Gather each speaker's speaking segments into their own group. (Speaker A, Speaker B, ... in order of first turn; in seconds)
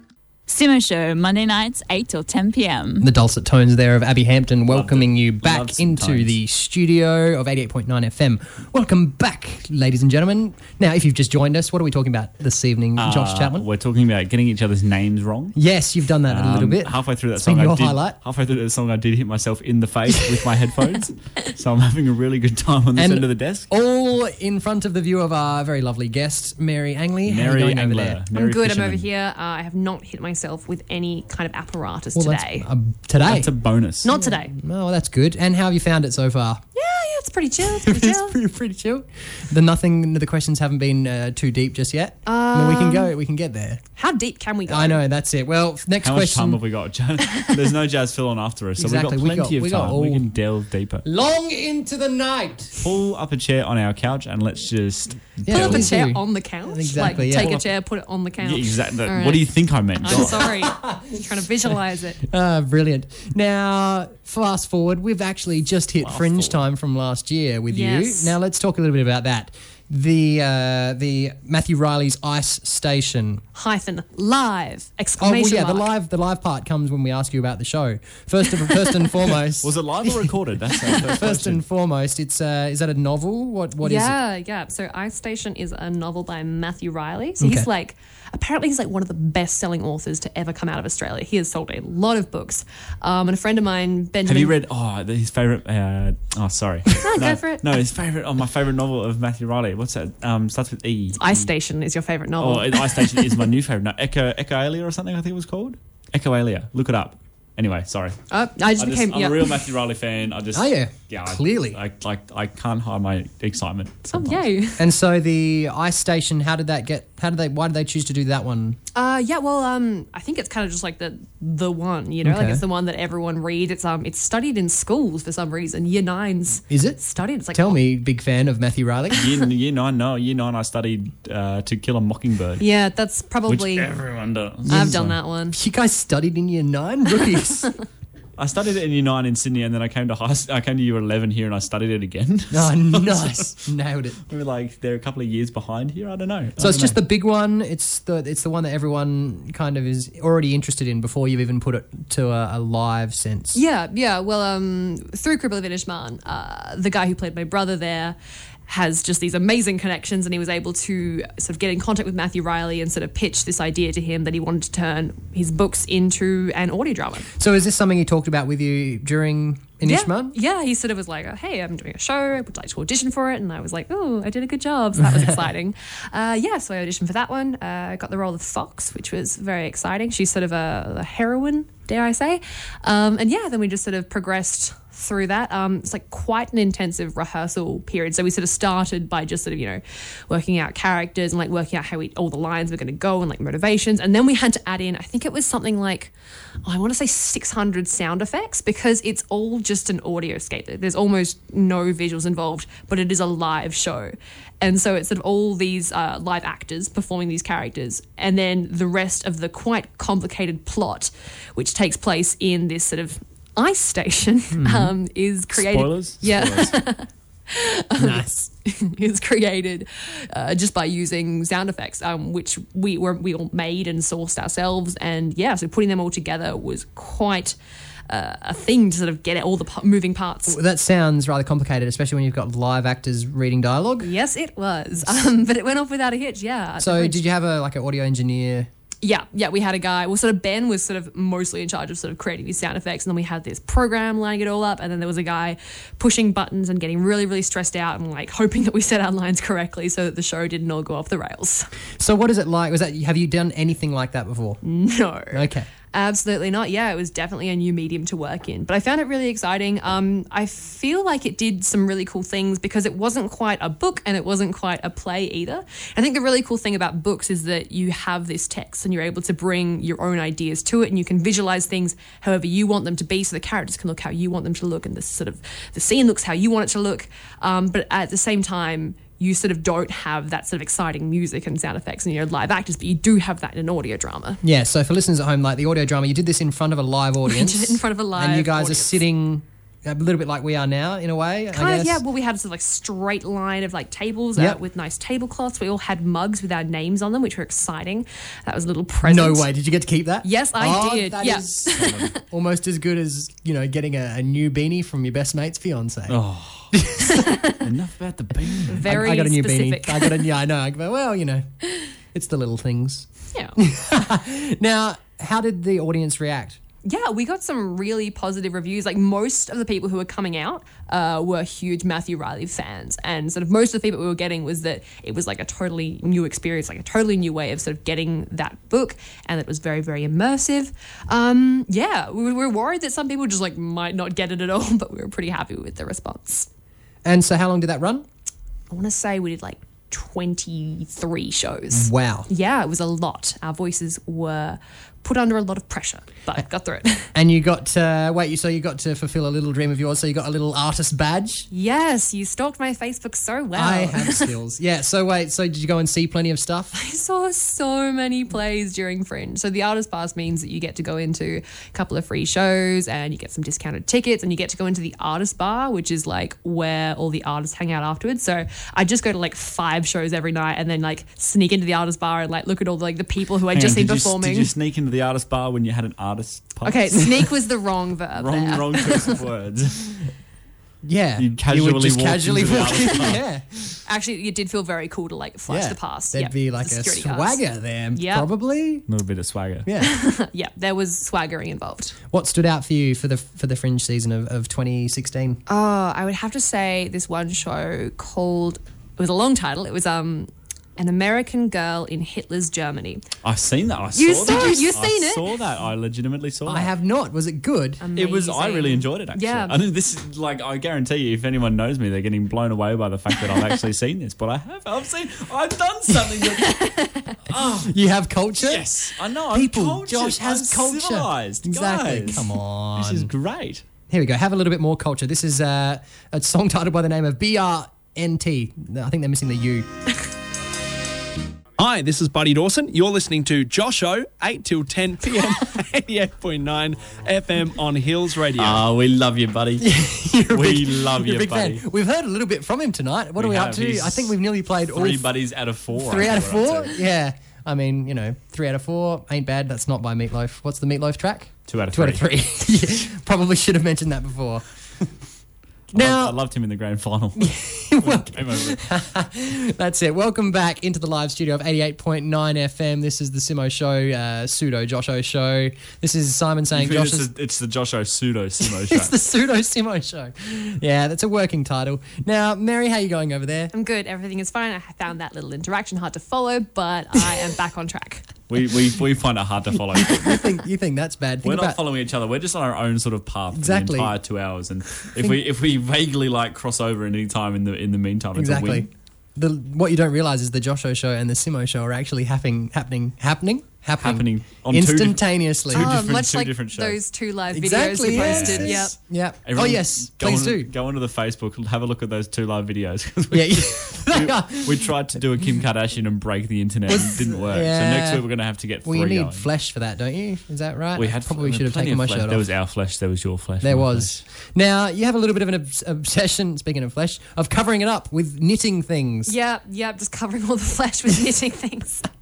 Speaker A: 0.5-3.0
Speaker B: 3.0-13.7, 15.6-18.2, 22.9-28.2, 32.1-33.5, 34.0-36.6, 37.8-43.8, 44.7-46.6, 48.8-50.3, 51.0-52.8, 55.4-57.6, 60.1-61.2, 62.2-73.4, 75.2-84.2, 87.4-87.7, 110.5-111.8, 114.8-118.8, 122.2-122.6, 126.7-127.0, 127.5-129.3, 134.7-137.7, 142.5-144.2, 146.6-153.6, 167.4-170.3, 214.5-214.9, 218.0-218.5, 230.5-234.1, 236.8-238.7, 252.0-254.6, 255.3-255.7, 284.4-292.0, 299.0-306.2, 306.7-307.3, 308.7-311.4, 312.1-316.6, 337.0-338.1, 341.7-342.3, 347.1-351.5, 353.5-356.7, 380.8-383.7, 385.5-388.9, 389.6-389.9, 392.1-395.4, 406.4-407.8, 417.6-423.1, 423.9-429.7, 439.6-445.1, 445.7-454.4, 455.7-456.2, 457.2-467.1, 468.4-473.5, 479.8-481.6, 483.3-483.9, 488.1-495.7, 497.3-500.5, 503.1-504.7, 506.7-508.0, 508.6-512.2, 513.4-519.1
Speaker C: 4.7-6.4, 13.0-15.6, 16.3-23.7, 27.2-29.1, 33.2-34.1, 46.0-51.0, 52.8-55.9, 57.0-57.7, 58.4-60.4, 66.0-66.6, 79.6-81.6, 94.2-101.5, 102.4-108.2, 108.8-114.4, 129.1-132.6, 133.5-135.2, 138.4-143.5, 144.3-147.0, 215.5-216.8, 301.7-302.1, 306.1-306.8, 307.6-308.9, 373.5-377.3, 378.1-380.0, 381.2-383.2, 388.9-389.7, 403.2-406.7, 407.9-416.7, 417.2-417.7, 418.4-423.6, 438.4-439.7, 440.3-441.6, 443.2-444.1, 444.7-446.7, 451.5-452.1, 455.7-458.7, 466.5-468.9, 478.3-480.3, 481.2-488.7, 493.8-496.8, 497.8-509.2, 510.8-514.0
Speaker D: 28.3-32.7, 34.0-34.5, 36.8-38.4, 42.2-43.1, 44.0-45.0, 55.5-62.2, 67.7-68.3, 73.5-75.8, 83.8-94.6, 97.0-97.6, 101.2-103.4, 108.3-109.6, 114.1-114.8, 118.9-127.8, 132.6-133.9, 134.7-135.6, 153.5-158.2, 158.7-167.3, 169.8-196.1, 196.6-227.6, 228.1-230.6, 234.0-237.2, 239.0-251.7, 254.6-284.4, 287.2-289.0, 291.5-299.5, 300.2-302.1, 307.0-307.6, 308.7-310.3, 316.8-336.5, 338.7-347.1, 351.5-354.3, 356.7-374.5, 376.6-379.2, 383.9-387.4, 387.9-388.3, 389.8-391.9, 395.5-403.0, 403.9-405.2, 407.8-409.6, 416.4-417.1, 473.5-478.1, 495.5-498.7, 519.0-521.9
Speaker E: 431.6-438.6